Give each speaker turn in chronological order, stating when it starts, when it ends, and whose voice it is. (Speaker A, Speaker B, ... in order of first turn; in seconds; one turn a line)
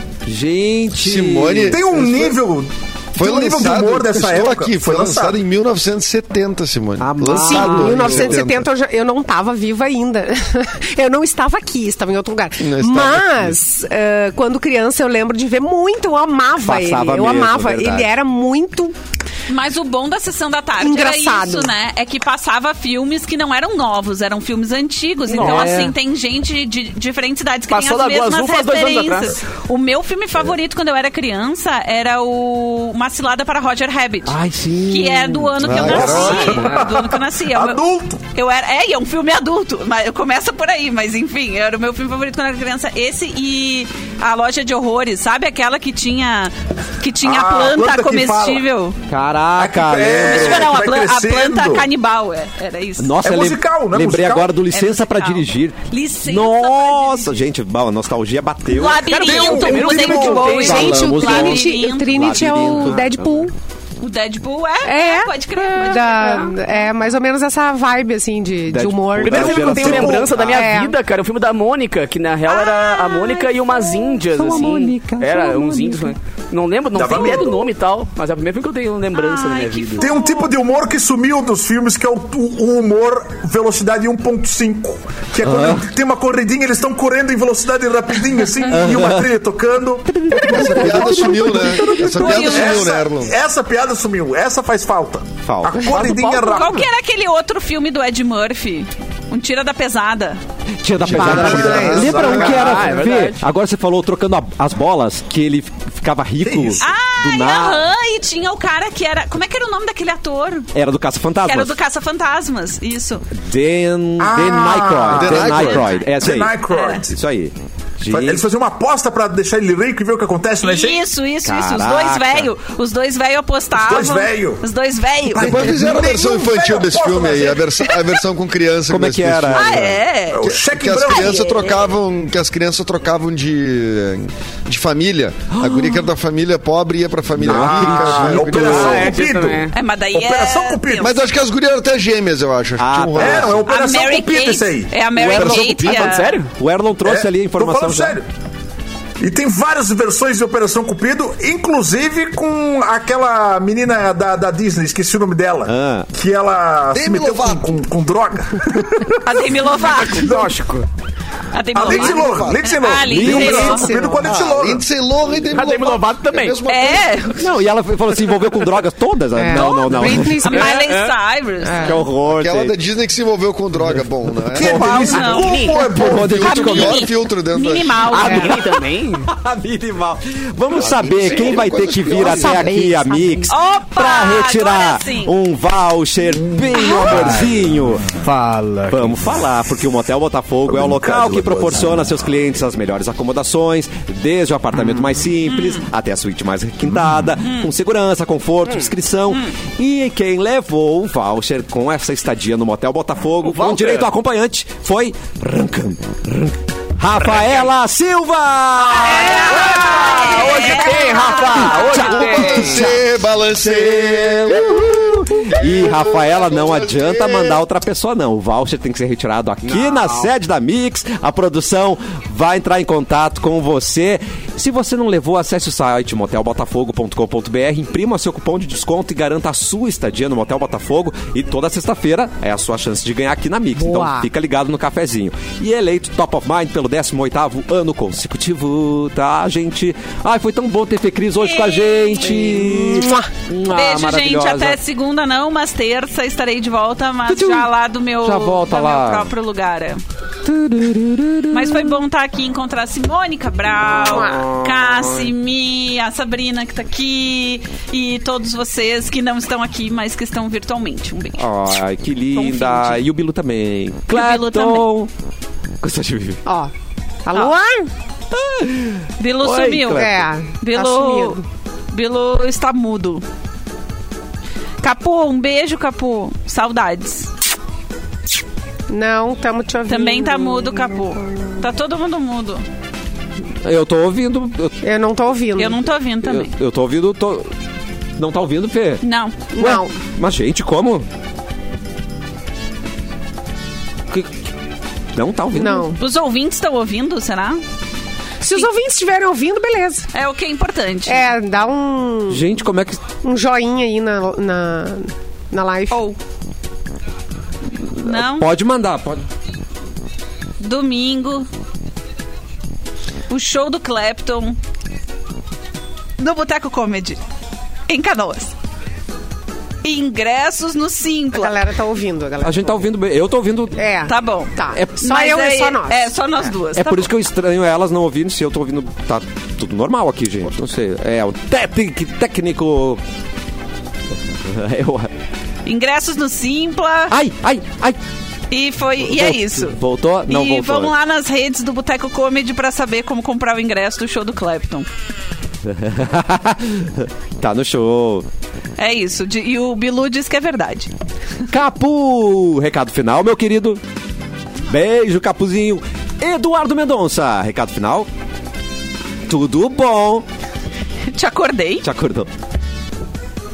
Speaker A: 0.3-1.8
Speaker B: 0.9-2.4
Speaker C: 1.7-5.4
Speaker B: 3.2-8.7
Speaker A: 7.0-8.4
Speaker D: 7.3-19.0
Speaker B: 12.6-13.6
Speaker A: 16.6-18.1
Speaker E: 19.5-34.3
Speaker D: 20.8-21.7
Speaker F: 25.3-25.8
Speaker A: 25.4-25.9
Speaker F: 27.7-29.4
Speaker A: 34.3-36.0
Speaker E: 34.9-37.8
Speaker B: 35.6-36.6
Speaker C: 35.9-38.2
Speaker F: 36.0-36.9
Speaker E: 38.3-49.0
Speaker C: 47.2-48.6
Speaker A: 49.1-50.7
Speaker C: 49.5-51.9
Speaker E: 50.1-53.1
Speaker A: 53.0-59.0
Speaker C: 53.2-54.7
Speaker E: 54.7-57.3
Speaker C: 58.7-60.6
Speaker E: 58.7-62.4
Speaker F: 59.0-60.8
Speaker D: 60.4-63.5
Speaker A: 60.6-63.5
Speaker E: 64.0-66.6
Speaker D: 64.8-71.0
Speaker A: 68.7-70.2
Speaker F: 69.2-80.1
Speaker C: 69.5-70.6
Speaker E: 72.5-74.2
Speaker A: 74.3-76.1
Speaker C: 76.9-77.6
Speaker E: 79.1-80.5
Speaker C: 80.0-90.2
Speaker A: 85.4-85.9
Speaker A: 88.7-89.3
Speaker A: 90.1-92.4
Speaker B: 90.3-93.4
Speaker E: 91.0-93.0
Speaker C: 92.4-96.8
Speaker A: 95.4-96.0
Speaker F: 95.8-96.8
Speaker E: 96.5-100.4
Speaker A: 100.8-107.8
Speaker C: 101.0-102.8
Speaker B: 101.0-102.6
Speaker F: 102.1-103.4
Speaker C: 106.4-106.9
Speaker E: 106.8-110.7
Speaker A: 110.7-111.8
Speaker E: 111.5-113.2
Speaker A: 113.4-116.6
Speaker C: 114.2-117.2
Speaker B: 115.1-115.9
Speaker E: 115.7-116.1
Speaker E: 116.7-117.0
Speaker A: 117.1-118.4
Speaker C: 118.1-121.0
Speaker E: 120.6-125.8
Speaker A: 121.4-122.5
Speaker C: 123.7-124.6
Speaker B: 125.3-129.9
Speaker C: 125.4-127.8
Speaker A: 128.9-130.0
Speaker E: 129.5-130.4
Speaker C: 130.3-131.5
Speaker B: 130.4-139.1
Speaker E: 131.0-131.9
Speaker A: 135.5-136.0
Speaker A: 137.4-139.1
Speaker F: 137.5-137.8
Speaker C: 137.6-141.2
Speaker F: 138.5-139.7
Speaker E: 139.7-141.2
Speaker B: 141.0-143.7
Speaker A: 142.8-143.6
Speaker C: 143.2-145.0
Speaker E: 143.7-146.4
Speaker F: 145.1-146.5
Speaker B: 145.2-146.2
Speaker A: 146.6-148.2
Speaker C: 147.0-148.3
Speaker C: 149.2-159.2
Speaker A: 155.7-156.1
Speaker B: 156.9-157.8
Speaker E: 159.2-160.3
Speaker F: 159.7-160.8
Speaker E: 161.5-164.0
Speaker C: 161.7-164.8
Speaker B: 162.2-162.6
Speaker A: 163.1-164.0
Speaker B: 163.3-167.2
Speaker F: 165.5-166.6
Speaker E: 166.7-167.4
Speaker A: 167.4-170.4
Speaker D: 169.4-170.8
Speaker E: 169.6-172.0
Speaker F: 170.5-171.1
Speaker D: 171.6-172.0
Speaker A: 171.8-172.7
Speaker B: 172.2-174.9
Speaker C: 174.6-176.7
Speaker E: 174.6-178.8
Speaker F: 174.9-175.9
Speaker A: 175.9-177.1
Speaker B: 176.0-178.2
Speaker F: 178.1-179.3
Speaker A: 179.3-188.2
Speaker B: 180.8-182.8
Speaker F: 181.2-182.6
Speaker D: 182.2-183.5
Speaker E: 183.5-185.3
Speaker C: 186.2-186.8
Speaker E: 186.7-187.2
Speaker F: 187.0-187.5
Speaker F: 188.2-189.3
Speaker A: 188.9-209.6
Speaker C: 190.7-192.3
Speaker E: 195.5-195.8
Speaker F: 198.7-198.9
Speaker F: 203.4-204.1
Speaker F: 207.2-207.7
Speaker E: 208.8-212.2
Speaker F: 209.3-212.9
Speaker A: 211.5-213.0
Speaker B: 211.9-217.6
Speaker A: 213.6-244.8
Speaker F: 219.6-220.3
Speaker D: 233.8-234.3
Speaker E: 241.4-242.5
Speaker D: 242.6-243.3
Speaker E: 243.7-250.0
Speaker A: 247.3-247.7
Speaker A: 248.2-249.3
Speaker A: 250.5-251.9
Speaker E: 251.5-261.8
Speaker A: 253.9-255.3
Speaker A: 261.4-265.1
Speaker E: 262.3-263.0
Speaker E: 264.1-264.9
Speaker A: 265.8-266.4
Speaker D: 267.3-267.9
Speaker A: 268.3-270.2
Speaker E: 269.2-271.4
Speaker D: 269.9-271.4
Speaker E: 271.9-273.2
Speaker E: 274.8-277.3
Speaker D: 278.9-281.4
Speaker E: 279.9-282.6
Speaker A: 283.6-284.8
Speaker D: 284.8-285.8
Speaker E: 285.6-286.5
Speaker A: 286.2-287.5
Speaker A: 288.2-289.0
Speaker E: 289.0-289.5
Speaker D: 289.5-289.9
Speaker A: 289.6-291.1
Speaker A: 295.1-295.9
Speaker D: 295.5-296.0
Speaker E: 296.0-297.6
Speaker D: 298.4-300.1
Speaker E: 300.1-301.3
Speaker D: 301.1-302.5
Speaker A: 302.3-303.0
Speaker D: 303.2-306.0
Speaker E: 305.9-306.2
Speaker A: 307.8-309.2
Speaker E: 308.0-308.5
Speaker E: 310.6-311.5
Speaker E: 313.3-314.6
Speaker E: 316.2-317.2
Speaker E: 317.9-318.5
Speaker E: 319.8-321.6
Speaker D: 321.3-322.7
Speaker A: 322.4-323.9
Speaker D: 323.8-326.1
Speaker E: 324.1-327.1
Speaker A: 326.8-333.0
Speaker A: 334.4-335.1
Speaker E: 335.7-337.1
Speaker A: 337.1-338.0
Speaker E: 338.5-344.9
Speaker A: 339.0-340.9
Speaker A: 345.6-348.3
Speaker E: 348.8-350.9
Speaker A: 351.5-353.8
Speaker A: 354.7-358.1
Speaker A: 359.3-360.2
Speaker E: 361.1-361.9
Speaker A: 361.8-362.3